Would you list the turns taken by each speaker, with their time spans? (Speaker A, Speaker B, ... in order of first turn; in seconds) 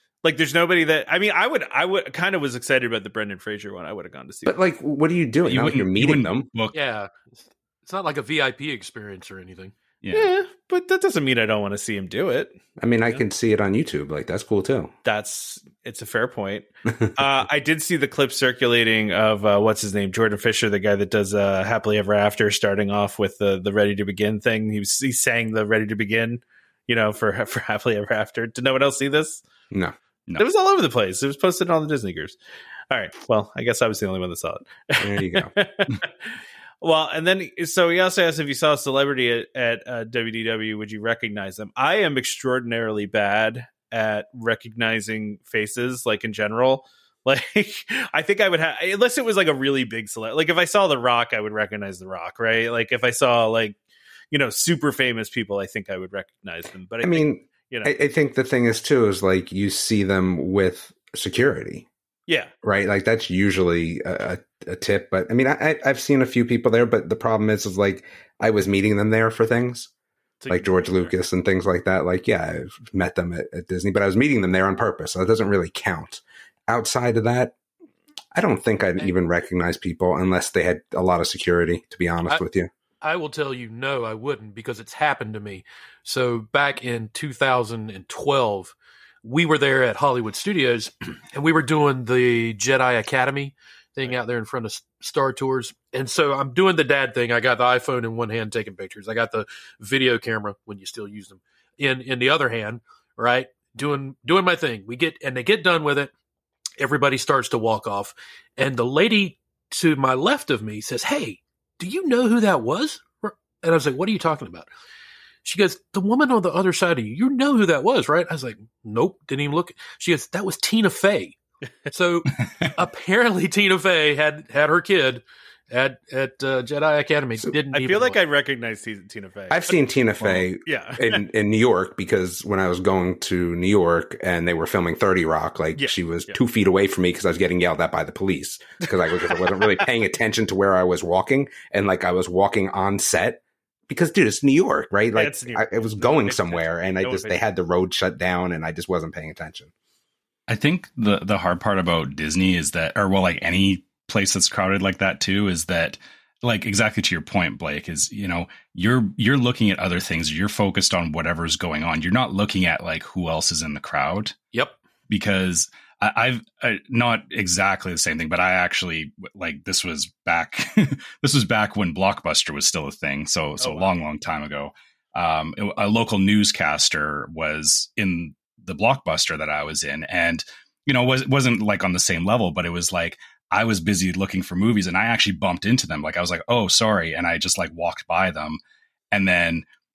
Speaker A: 0.2-4.6, 10.1-12.6, 15.0-29.4, 30.4-32.4, 32.9-36.1, 36.8-53.8, 54.3-58.0, 70.4-71.2, 127.7-129.8, 130.6-131.2, 135.8-136.4, 145.1-147.4, 173.6-173.9
Speaker B: 4.5-6.5, 12.8-14.9, 35.0-35.5, 57.0-61.9, 62.6-69.9, 70.5-77.5, 78.3-82.7, 129.5-149.7
Speaker C: 5.5-6.7, 10.0-10.3, 150.5-164.3, 165.1-188.6, 189.1-189.6
Speaker D: 6.7-9.7, 83.0-106.1, 106.8-114.7, 115.4-121.3, 121.9-128.2